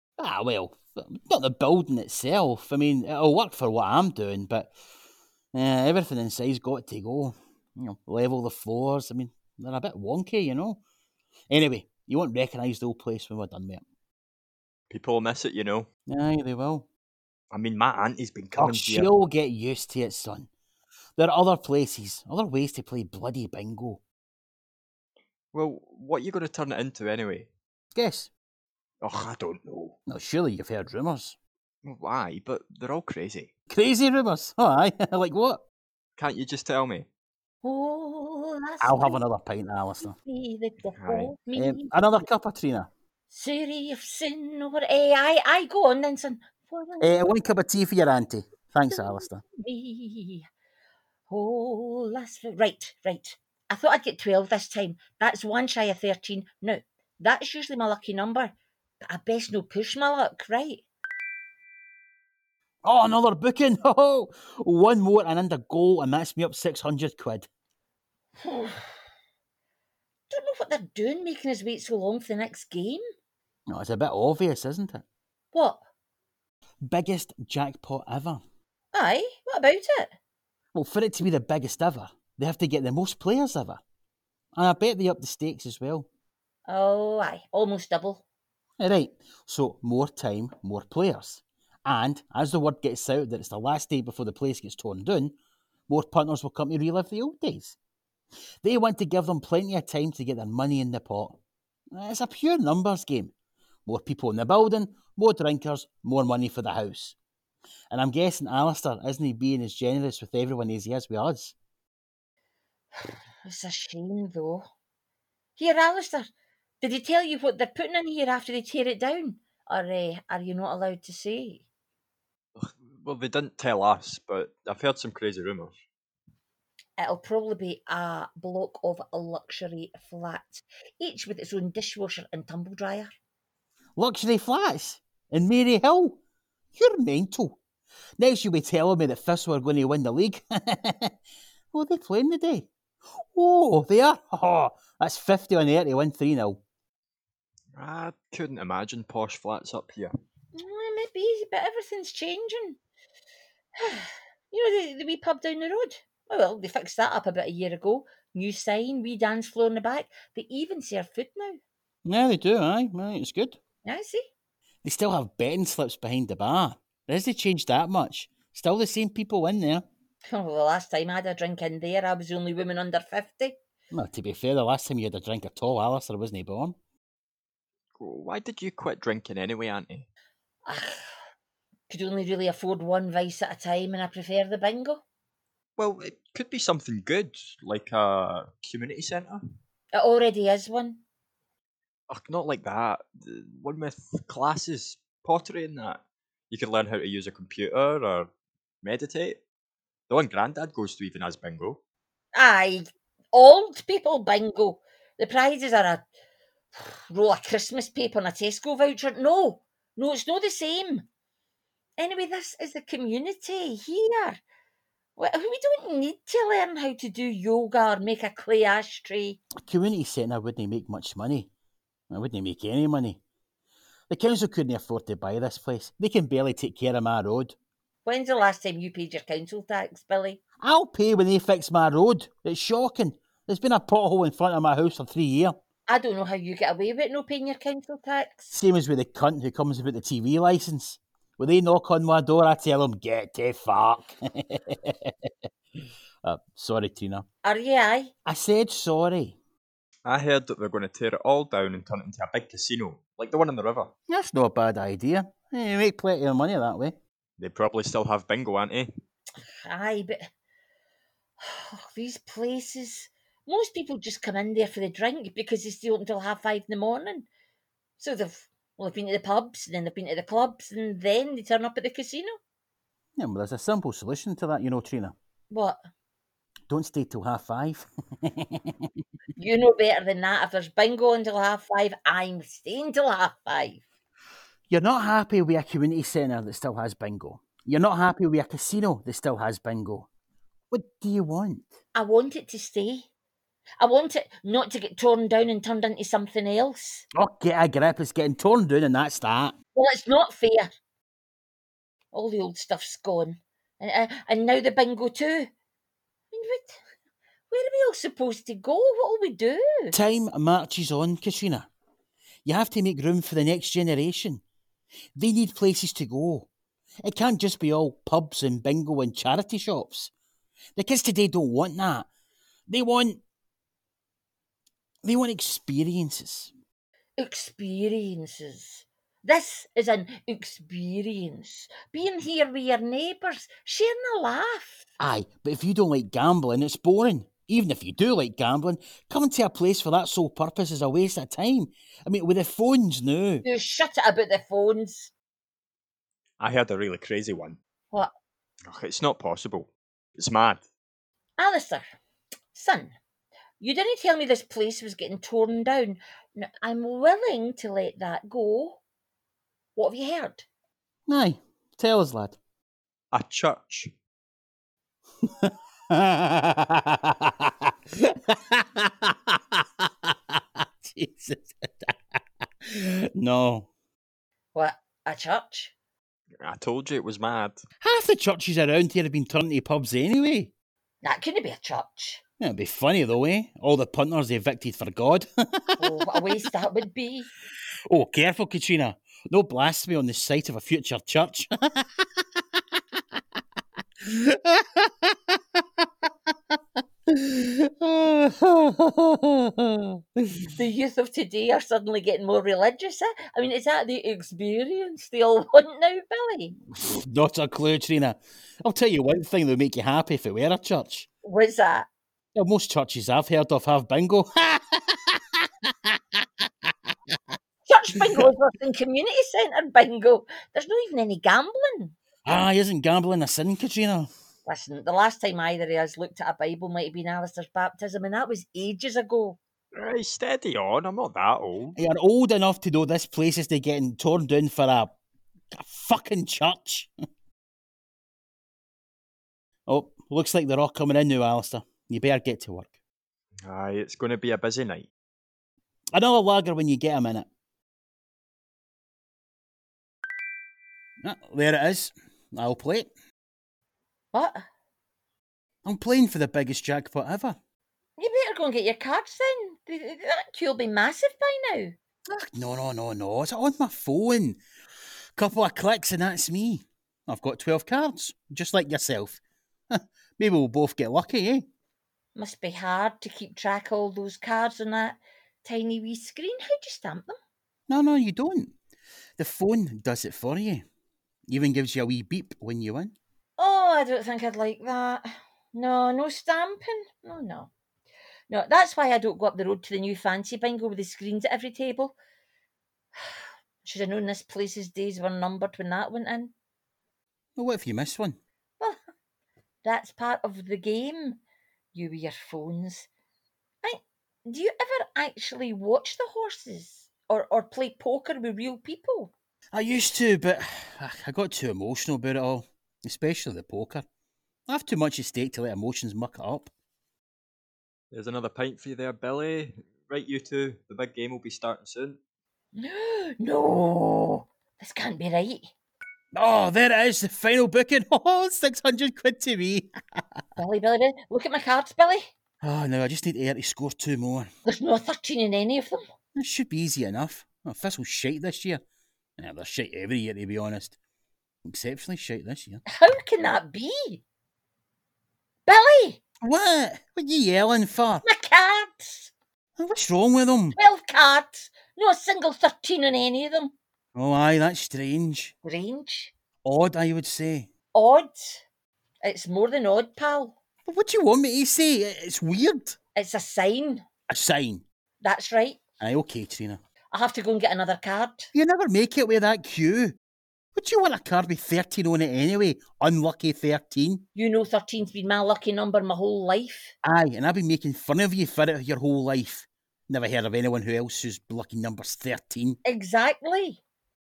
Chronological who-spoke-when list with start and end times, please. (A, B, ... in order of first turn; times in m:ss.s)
0:00.2-0:04.7 A
0:05.5-0:10.8 A
0:11.5-0:13.8 A
0:14.9-0:15.9 B
0:16.1-0:16.8 A
0:17.5-0:19.1 B
0:18.6-0:20.5 A
0:21.2-0:24.0 A
0:25.5-0:27.5 B
0:27.9-0:28.3 A
0:29.0-0:30.0 B
0:30.1-0:31.4 A
0:31.8-0:33.5 B
0:33.7-0:35.6 A
0:36.2-0:37.1 B
0:37.6-0:39.2 C
0:38.8-0:40.2 A
0:40.1-0:42.0 C
0:41.0-0:41.3 B
0:41.5-0:42.9 A
0:43.3-0:47.2 C
0:47.0-0:49.4 A
0:48.9-0:50.5 C
0:51.3-1:00.8 C
1:02.8-1:07.5 A
1:08.4-1:08.9 C
1:10.3-1:13.0 C
1:13.7-1:15.0 A
1:15.5-1:15.8 C
1:16.8-1:18.4 A
1:18.9-1:20.1 C
1:20.7-1:23.8 A
1:24.5-1:26.1 A
1:26.7-1:28.2 C
1:28.8-1:35.4 A
1:35.9-1:37.8 A
1:38.6-1:41.4 A
1:41.9-1:43.3 A
1:43.8-1:47.2 A
1:47.9-1:51.5 A
1:52.9-1:54.7 C
1:55.6-1:56.3 C
1:56.8-2:01.6 C
2:02.6-2:05.8 B
2:07.0-2:13.1 C
2:14.0-2:16.2 A
2:16.7-2:17.6 A
2:18.2-2:21.2 A
2:21.7-2:22.7 A
2:23.3-2:26.6 A
2:27.7-2:30.1 B
2:30.5-2:32.8 C
2:33.8-2:41.6 C
2:42.0-2:43.6 A
2:43.8-2:44.2 C
2:44.8-2:49.8 A
2:50.3-2:53.6 C
2:53.9-2:56.8 A
2:58.0-3:00.1 B
3:00.6-3:01.0 C
3:01.9-3:05.0 C
3:05.8-3:09.4 B
3:09.9-3:11.0 C
3:12.1-3:18.3 B
3:18.8-3:19.4 B
3:20.1-3:21.8 B
3:22.3-3:26.1 C
3:26.7-3:31.0 C
3:32.0-3:34.4 C
3:35.2-3:39.4 C
3:39.6-3:41.5 A
3:42.1-3:43.2 A
3:44.1-3:47.6 A
3:48.0-3:50.4 C
3:50.6-3:55.6 A
3:55.9-3:58.5 C
3:58.5-4:05.3 A
4:06.2-4:07.2 A
4:07.4-4:08.1 C
4:08.2-4:09.4 A
4:10.0-4:13.9 B
4:14.1-4:17.0 A
4:17.4-4:18.9 B
4:19.4-4:20.2 C
4:21.4-4:27.3 C
4:28.0-4:32.4 C
4:33.2-4:35.1 A
4:35.5-4:35.8 C
4:36.7-4:38.9 A
4:39.4-4:43.8 C
4:44.7-4:50.1 A
4:50.7-4:51.7 A
4:51.9-4:53.1 C
4:53.8-4:57.0 C
4:57.1-4:59.5 A
4:59.7-5:00.7 C
5:02.1-5:05.5 C
5:06.3-5:06.8 C
5:07.5-5:10.0 C
5:09.9-5:11.7 A
5:12.4-5:14.4 A
5:15.2-5:16.5 A
5:17.0-5:20.1 A
5:20.8-5:22.1 A
5:22.7-5:23.2 A
5:25.0-5:26.5 A
5:27.2-5:34.9 C
5:35.0-5:43.4 A
5:43.4-5:45.1 C
5:46.4-5:47.6 B
5:48.7-5:50.6 B
5:51.4-5:51.9 C
5:52.5-5:52.9 C
5:53.6-5:58.8 C
5:59.8-6:00.4 C
6:01.1-6:02.4 A
6:03.1-6:03.9 B
6:05.2-6:13.7 A
6:14.5-6:15.7 C
6:16.4-6:17.6 B
6:17.8-6:20.5 A
6:21.0-6:22.2 C
6:22.4-6:26.3 A
6:25.8-6:27.3 C
6:27.9-6:33.2 A
6:34.0-6:40.5 A
6:40.5-6:46.6 C
6:46.8-6:51.1 A
6:51.2-6:51.9 C
6:52.3-6:57.2 A
6:57.6-7:01.9 C
7:02.2-7:04.1 A
7:04.4-7:09.4 C
7:09.7-7:11.8 B
7:11.8-7:14.9 A
7:15.5-7:16.9 A
7:19.7-7:22.7 A
7:23.4-7:24.9 B
7:25.9-7:27.3 A
7:31.0-7:32.9 A
7:34.1-7:34.4 C
7:35.6-7:37.4 A
7:38.0-7:41.8 C
7:42.1-7:44.4 A
7:45.1-7:49.2 A
7:49.7-7:51.5 A
7:52.1-7:57.2 C
7:57.7-7:58.5 A
7:59.2-8:00.6 A
8:01.3-8:02.9 A
8:03.4-8:07.5 C
8:08.3-8:11.9 C
8:13.0-8:16.3 C
8:17.4-8:18.2 A
8:19.6-8:21.2 C
8:21.7-8:22.9 C
8:23.6-8:29.1 C
8:29.5-8:33.8 A
8:34.5-8:36.5 A
8:37.9-8:42.0 B
8:42.6-8:45.5 C
8:46.1-8:50.0 A
8:50.4-8:52.1 C
8:52.4-8:54.3 A
8:54.4-8:55.8 C
8:56.1-8:58.6 A
8:59.2-9:00.8 A
9:01.4-9:02.6 A
9:02.7-9:04.0 C
9:05.5-9:06.0 C
9:06.2-9:08.0 A
9:08.0-9:09.1 C
9:09.6-9:10.6 A
9:10.6-9:13.5 C
9:13.9-9:15.3 A
9:15.4-9:16.1 C
9:16.4-9:17.5 A
9:17.7-9:18.4 C
9:19.0-9:20.3 C
9:20.7-9:22.8 A
9:22.9-9:23.8 C
9:24.1-9:24.6 A
9:25.0-9:25.6 C
9:25.8-9:26.6 A
9:26.9-9:28.3 C
9:28.3-9:30.0 A
9:30.5-9:34.0 A
9:34.1-9:36.7 C
9:36.8-9:42.6 A
9:42.6-9:43.6 C